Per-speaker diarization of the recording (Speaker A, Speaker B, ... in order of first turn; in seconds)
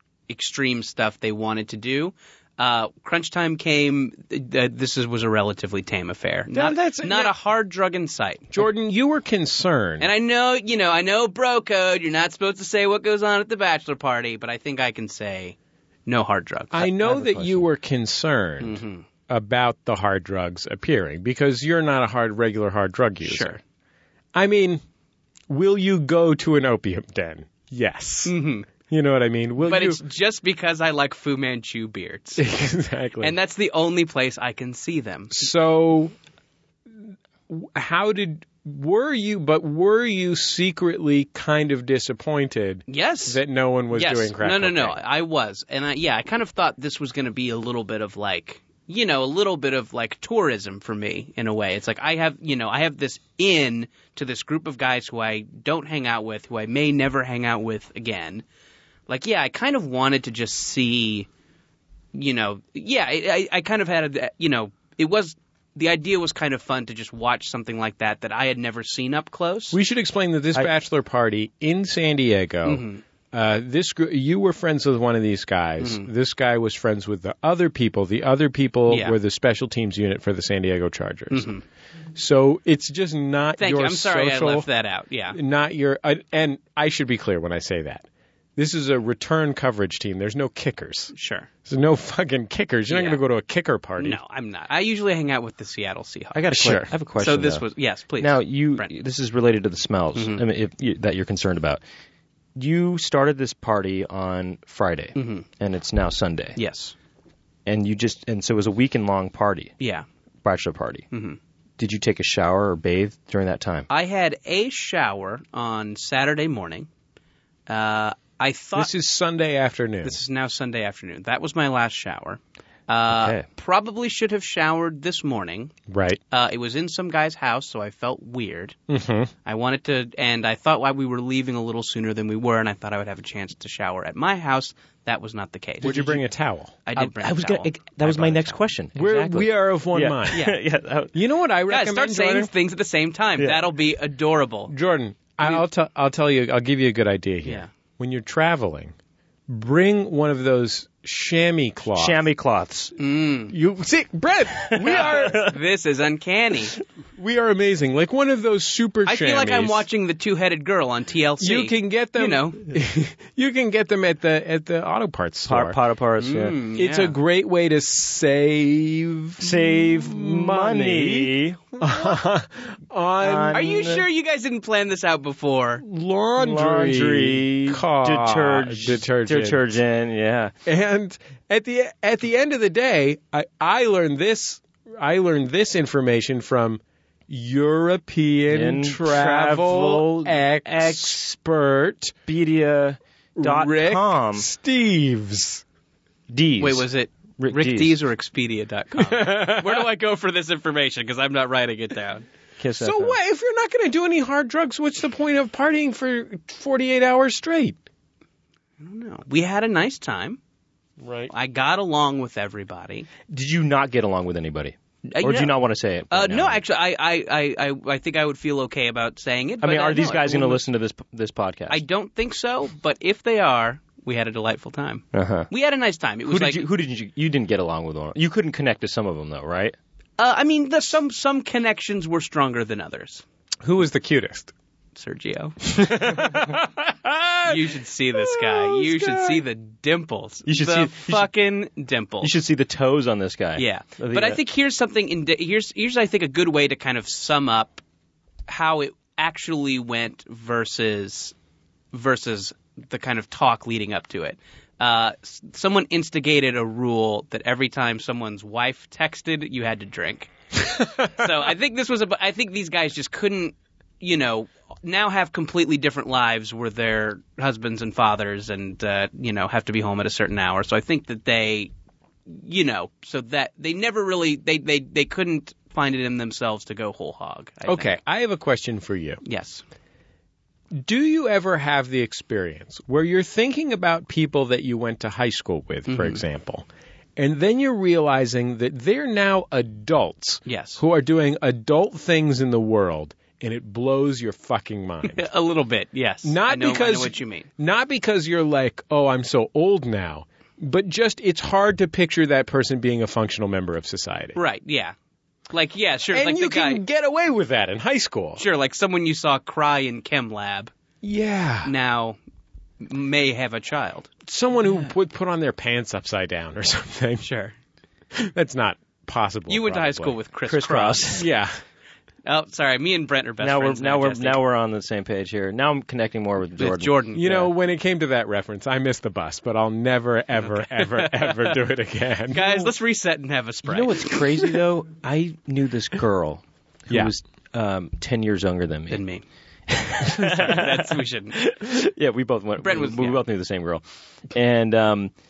Speaker A: 0.3-8.7, 10.0-16.9, 18.6-19.0, 23.2-23.6, 28.2-28.7, 29.6-32.4, 33.2-35.5, 42.9-43.4, 43.9-58.5, 59.1-61.3, 62.1-69.8, 72.7-73.0, 75.8-76.1, 78.9-79.2, 81.3-81.6, 83.6-85.4, 91.1-91.5, 92.9-93.2, 94.0-96.5, 97.2-98.9, 100.2-100.4, 105.2-105.5, 106.5-106.9, 109.8-110.0, 111.1-111.4, 113.9-116.9, 117.7-118.9, 120.0-125.7, 126.3-128.8, 129.4-136.2, 136.8-138.6, 140.3-140.6, 141.7-144.7, 147.4-147.7, 153.0-153.5, 154.8-156.8, 159.1-162.7, 166.2-167.2, 173.5-175.8, 196.6-202.2, 208.8-210.4, 211.3-213.1, 215.1-215.6, 216.1-220.6, 221.7-226.6, 230.2-233.2, 235.0-235.6, 237.4-242.3, 243.6-247.8, 248.5-251.3, 251.9-271.7, 272.3-278.0, 279.2-279.6, 285.9-286.2, 290.5-290.8, 295.0-297.5, 304.4-304.9, 305.5-306.8, 308.4-310.7, 311.6-312.2, 312.8-314.1, 317.2-317.5, 319.5-321.2, 322.2-324.4, 326.6-327.5, 330.4-331.6, 332.3-334.5, 338.9-339.2, 340.2-341.4, 342.6-343.2
Speaker B: 6.5-7.3, 8.5-10.1, 16.7-23.6, 24.3-24.8, 25.5-30.0, 32.4-33.4, 35.3-36.1, 37.5-45.0, 69.7-81.5, 82.2-84.7, 85.3-88.0, 88.6-91.1, 91.7-94.2, 96.5-96.9, 118.8-120.2, 125.9-126.2, 128.9-129.3, 135.8-136.8, 138.9-140.5, 141.1-142.5, 144.7-148.9, 149.5-152.2, 153.5-155.5, 157.2-159.8, 161.4-165.8, 166.8-173.7, 175.8-179.8, 180.7-192.2, 193.4-195.6, 199.0-199.9, 202.8-207.8, 211.0-211.3, 233.6-234.5, 235.6-239.4, 277.7-279.2, 280.8-286.7, 287.2-295.2, 296.2-304.4, 306.1-308.4, 311.0-311.7, 314.2-317.2, 318.1-320.2, 321.1-321.5, 327.1-332.7
Speaker C: 16.8-17.7, 96.3-97.6, 98.2-101.8, 102.6-106.6, 107.7-109.7, 110.4-111.1, 111.8-113.9, 123.1-123.5, 137.0-141.1, 151.9-152.9, 154.7-155.6, 165.5-166.5, 169.4-172.1, 173.2-174.1, 176.4-180.5, 188.5-191.2, 192.3-194.5, 196.3-196.9, 197.4-198.0, 202.6-203.2, 213.3-216.6, 219.6-221.8, 225.1-225.5, 226.2-229.8, 240.5-241.3, 242.2-244.4, 320.5-321.3, 323.4-327.5, 333.7-339.0, 339.7-345.1